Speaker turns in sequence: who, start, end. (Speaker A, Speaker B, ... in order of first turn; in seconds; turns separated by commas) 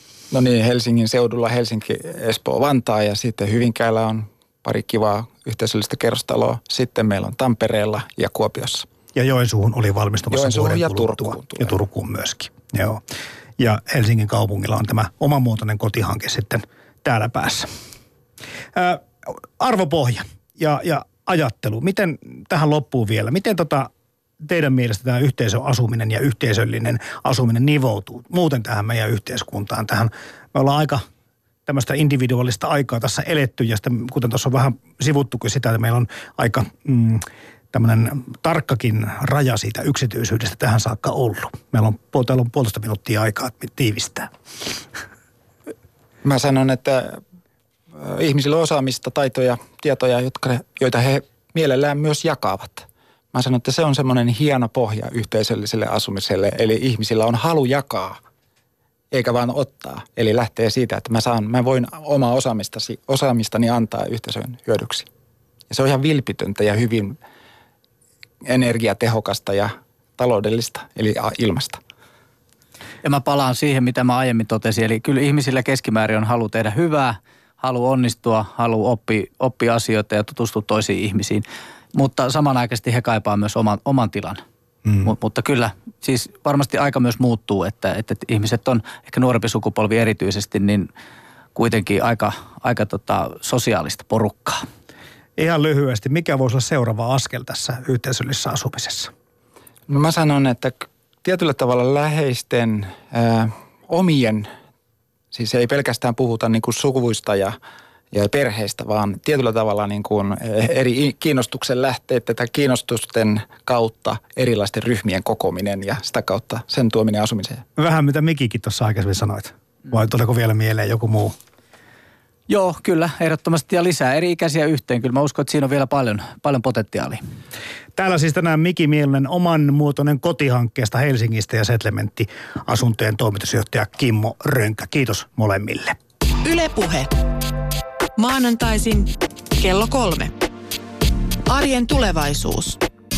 Speaker A: 0.3-8.9, Speaker B: 9.1-13.0, Speaker A: 10.3-11.7, Speaker B: 13.6-17.7, Speaker B: 18.7-19.1, Speaker B: 19.6-23.9, Speaker B: 24.4-31.0, Speaker B: 31.6-44.3, Speaker A: 46.2-47.2, Speaker A: 48.0-58.2, Speaker A: 59.1-65.1, Speaker A: 65.7-67.2, Speaker A: 68.4-71.8, Speaker C: 73.0-81.4, Speaker C: 81.9-84.4, Speaker C: 85.0-90.9, Speaker C: 91.5-94.6, Speaker B: 95.4-99.1, Speaker A: 99.9-104.5, Speaker A: 105.3-107.5, Speaker A: 108.1-117.6, Speaker B: 117.8-121.3, Speaker C: 122.5-127.2, Speaker B: 127.9-136.0, Speaker D: 136.4-137.1, Speaker D: 138.2-140.3, Speaker D: 141.5-142.8